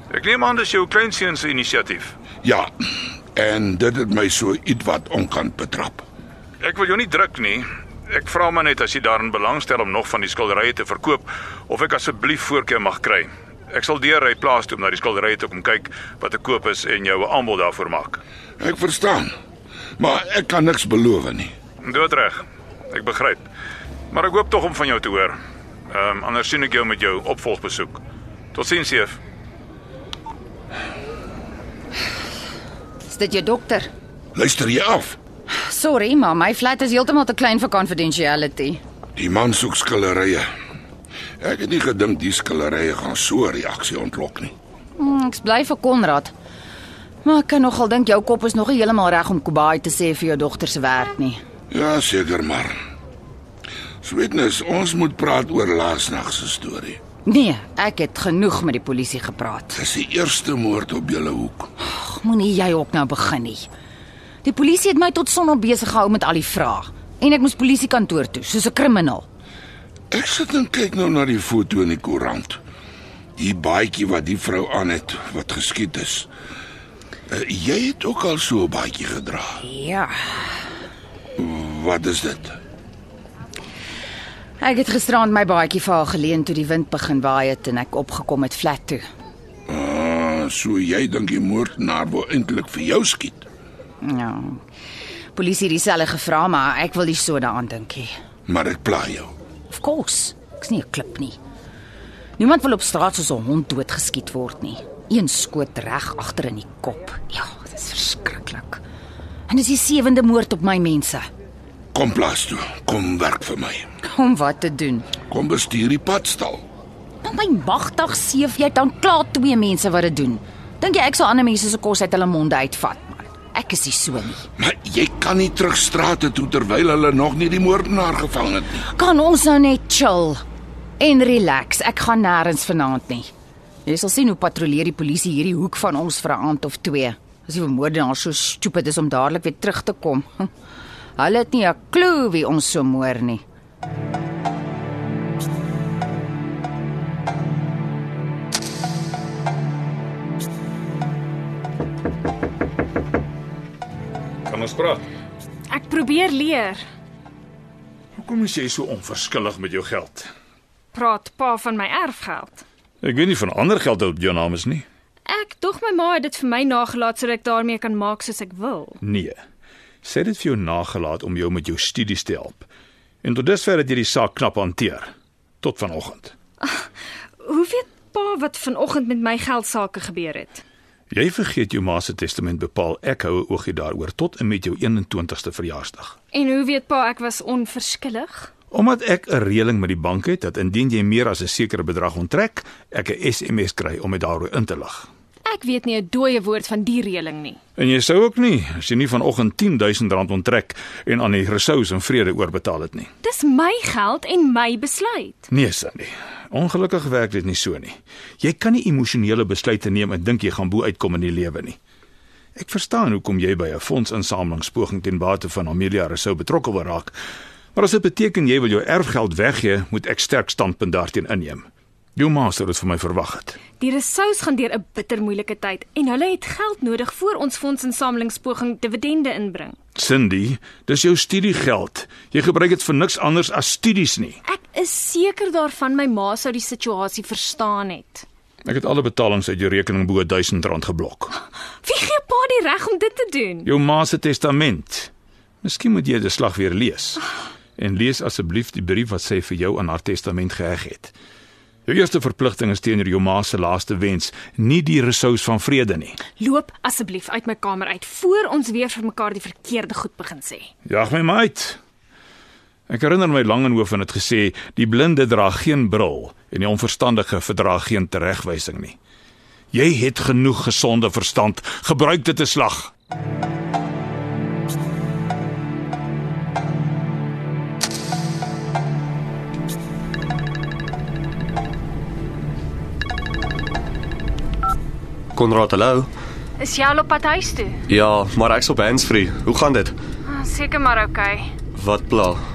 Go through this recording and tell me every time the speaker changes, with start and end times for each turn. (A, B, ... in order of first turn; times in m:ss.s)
0:00.1-0:02.2 A
0:02.4-0:02.7 B
0:03.3-0:06.0 B
0:06.6-0:18.2 A
0:18.6-0:19.3 B
0:20.0-0:21.5 B
0:21.8-0:23.4 A
0:24.1-0:25.4 A
0:25.9-0:28.0 A
0:28.5-0:29.2 A
0:33.0-0:33.9 C
0:34.3-0:35.2 B
0:35.5-0:38.8 C
0:39.2-0:40.5 B
0:41.4-0:44.5 B
0:45.0-0:46.3 C
0:47.2-0:51.4 C
0:51.7-0:52.8 B
0:54.0-0:57.0 B
0:57.2-0:59.8 C
0:59.7-1:01.7 B
1:01.8-1:03.7 C
1:04.4-1:09.2 C
1:10.1-1:12.6 B
1:13.4-1:16.3 B
1:17.3-1:19.6 B
1:19.6-1:20.5 C
1:21.4-1:22.6 B
1:24.6-1:29.0 C
1:29.7-1:33.4 B
1:34.0-1:34.6 C
1:35.3-1:38.1 C
1:38.5-1:39.3 B
1:39.7-1:41.4 C
1:42.4-1:48.8 C
1:49.5-1:51.2 C
1:51.9-1:53.9 B
1:54.1-1:55.1 C
1:55.3-1:56.6 B
1:57.2-2:04.4 C
2:04.6-2:08.8 B
2:08.8-2:10.4 C
2:11.0-2:13.3 C
2:13.8-2:20.5 C
2:21.2-2:23.4 C
2:34.5-2:35.0 A
2:35.7-2:36.8 D
2:38.2-2:40.3 A
2:40.9-2:42.6 D
2:43.0-2:44.8 A
2:45.3-2:49.0 D
2:49.0-2:49.4 A
2:50.0-2:52.7 A
2:53.2-2:55.1 A
2:55.6-2:56.3 A
2:57.4-3:00.6 D
3:01.1-3:06.1 A
3:06.3-3:08.5 D
3:08.7-3:15.1 A
3:15.5-3:17.6 D
3:17.8-3:23.1 A
3:23.2-3:25.5 D
3:25.5-3:31.8 A
3:32.6-3:37.2 A
3:37.7-3:43.6 A
3:43.8-3:49.8 D
3:49.9-3:54.4 A
3:54.5-3:58.2 D
3:58.6-4:01.3 A
4:01.8-4:03.7 D
4:03.6-4:05.1 A
4:05.6-4:07.2 A
4:07.8-4:11.1 A
4:11.8-4:16.2 A
4:16.4-4:20.7 D
4:20.8-4:21.8 A
4:22.9-4:29.0 A
4:29.7-4:32.9 A
4:45.3-4:46.1 E
4:46.6-4:47.8 D
4:47.9-4:49.9 E
4:50.3-4:51.5 D
4:51.7-4:52.4 E